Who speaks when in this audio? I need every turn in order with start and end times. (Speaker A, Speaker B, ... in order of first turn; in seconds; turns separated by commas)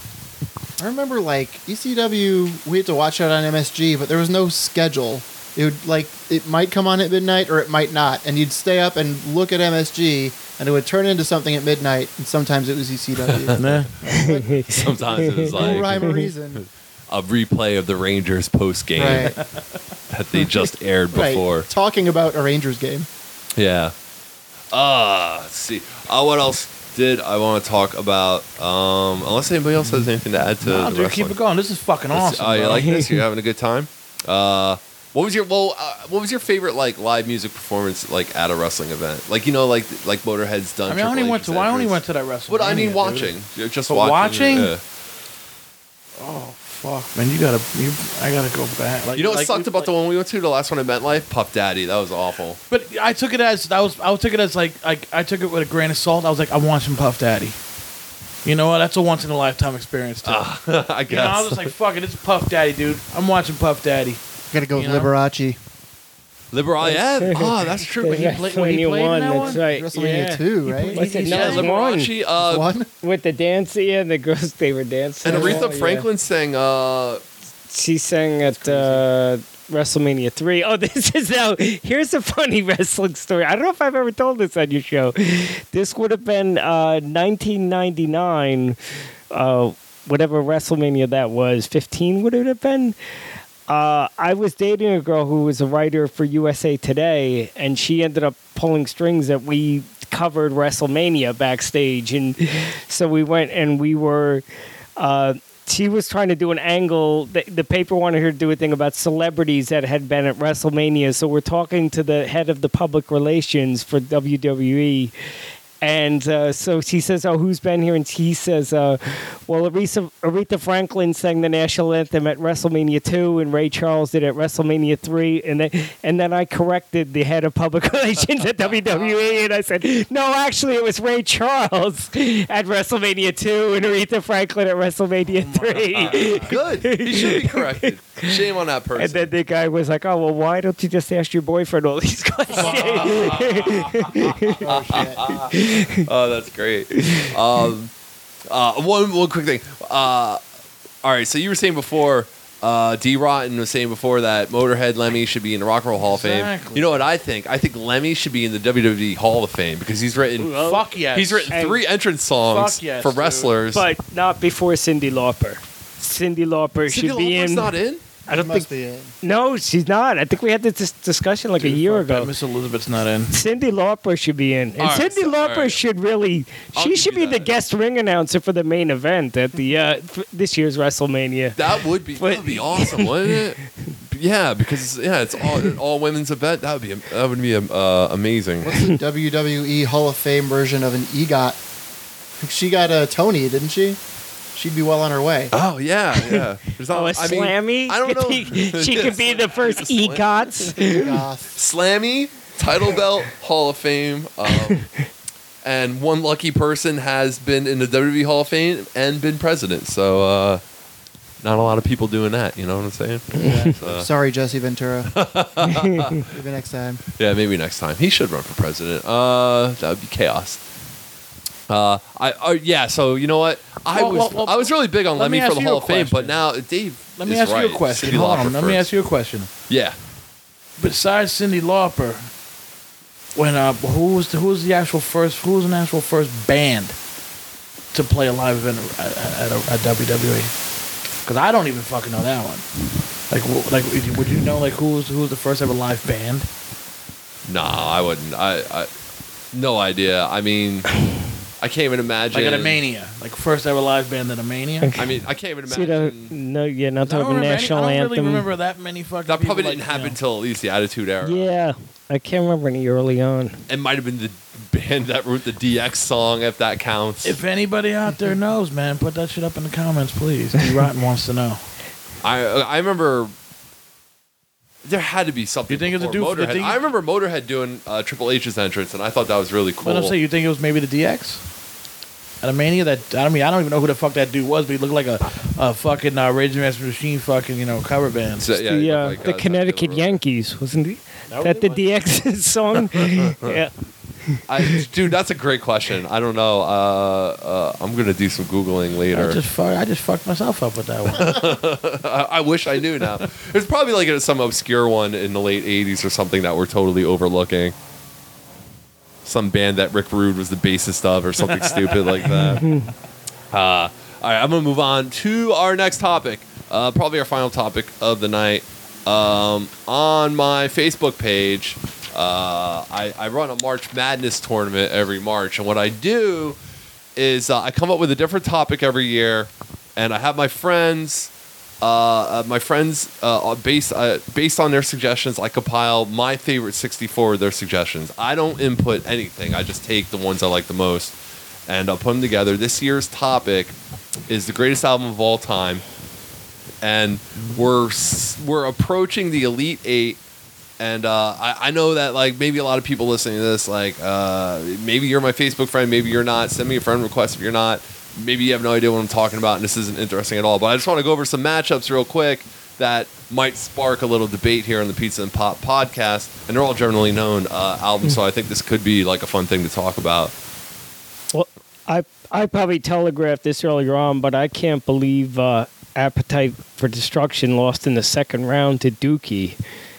Speaker A: 0.8-16.6, Speaker B: 13.3-13.8, Speaker C: 13.6-14.0, Speaker D: 14.1-16.3, Speaker B: 14.7-16.0, Speaker B: 16.6-19.4, Speaker A: 18.9-19.4, Speaker B: 20.1-21.7, Speaker A: 21.1-23.1, Speaker B: 23.6-23.9, Speaker B: 24.7-31.4, Speaker C: 30.6-33.0, Speaker B: 32.1-44.8, Speaker C: 40.9-43.3, Speaker C: 43.9-44.7, Speaker C: 46.2-49.9, Speaker B: 49.1-52.6, Speaker C: 52.7-57.6, Speaker C: 58.5-60.5, Speaker B: 60.2-61.7, Speaker C: 61.1-64.2, Speaker A: 64.5-65.6, Speaker C: 64.8-65.1, Speaker B: 66.5-68.5, Speaker D: 66.8-72.1, Speaker C: 68.0-71.7, Speaker A: 69.4-71.6, Speaker B: 71.1-72.7, Speaker A: 72.4-72.9, Speaker D: 73.0-76.1, Speaker B: 75.2-77.2, Speaker A: 75.3-75.7, Speaker D: 77.7-88.8, Speaker D: 89.3-93.0, Speaker D: 93.7-104.4, Speaker D: 105.0-115.1, Speaker D: 115.8-138.3, Speaker C: 128.7-129.4, Speaker C: 135.3-136.6, Speaker B: 136.0-139.3, Speaker D: 139.0-144.6, Speaker B: 142.6-147.9, Speaker C: 142.6-143.2, Speaker A: 144.6-145.4, Speaker D: 145.5-146.0, Speaker B: 148.5-150.4, Speaker B: 151.0-163.9, Speaker C: 156.0-157.0, Speaker D: 160.4-160.8, Speaker C: 160.6-161.6, Speaker D: 161.5-161.8, Speaker C: 162.5-163.5, Speaker D: 163.7-167.7, Speaker B: 166.9-168.0, Speaker D: 168.3-168.7, Speaker A: 168.3-169.1, Speaker D: 169.2-172.3, Speaker C: 171.6-173.3, Speaker D: 173.3-183.3, Speaker B: 174.8-175.8, Speaker B: 176.7-177.5, Speaker B: 181.6-188.8, Speaker A: 188.6-191.6, Speaker A: 192.4-194.0, Speaker A: 194.6-195.5, Speaker B: 195.5-200.7, Speaker D: 196.3-201.2, Speaker A: 200.7-201.5, Speaker B: 201.5-204.9, Speaker B: 205.6-210.6, Speaker B: 211.4-214.1, Speaker A: 213.4-215.2, Speaker B: 215.1-216.2, Speaker A: 216.2-217.0, Speaker B: 217.2-220.6, Speaker B: 221.7-228.9, Speaker C: 223.9-226.4, Speaker C: 227.2-229.5, Speaker B: 229.7-230.0, Speaker C: 230.8-232.3, Speaker C: 233.3-237.0, Speaker C: 237.9-240.5, Speaker C: 241.2-242.7, Speaker C: 243.3-246.5, Speaker B: 247.5-248.9, Speaker B: 249.5-251.0, Speaker B: 251.6-252.8, Speaker C: 252.3-254.9, Speaker D: 254.8-255.1, Speaker B: 254.9-256.4, Speaker D: 255.7-258.5, Speaker C: 257.1-260.2, Speaker B: 259.3-261.5, Speaker D: 261.2-263.6, Speaker B: 263.7-267.4, Speaker C: 267.2-271.6, Speaker B: 272.2-273.3, Speaker B: 274.9-280.1, Speaker C: 275.7-276.8, Speaker C: 279.8-281.4, Speaker C: 282.4-288.5, Speaker B: 288.4-290.2, Speaker D: 288.6-293.7, Speaker C: 291.3-291.8, Speaker B: 293.1-293.6, Speaker B: 294.5-299.4, Speaker C: 299.1-301.4, Speaker B: 301.1-307.8, Speaker B: 309.2-312.7, Speaker C: 311.4-312.6, Speaker D: 312.6-312.9, Speaker B: 313.5-326.6, Speaker B: 327.2-341.2, Speaker B: 341.7-343.7, Speaker B: 344.3-345.8, Speaker B: 346.8-350.2, Speaker B: 350.8-370.3, Speaker D: 371.3-379.6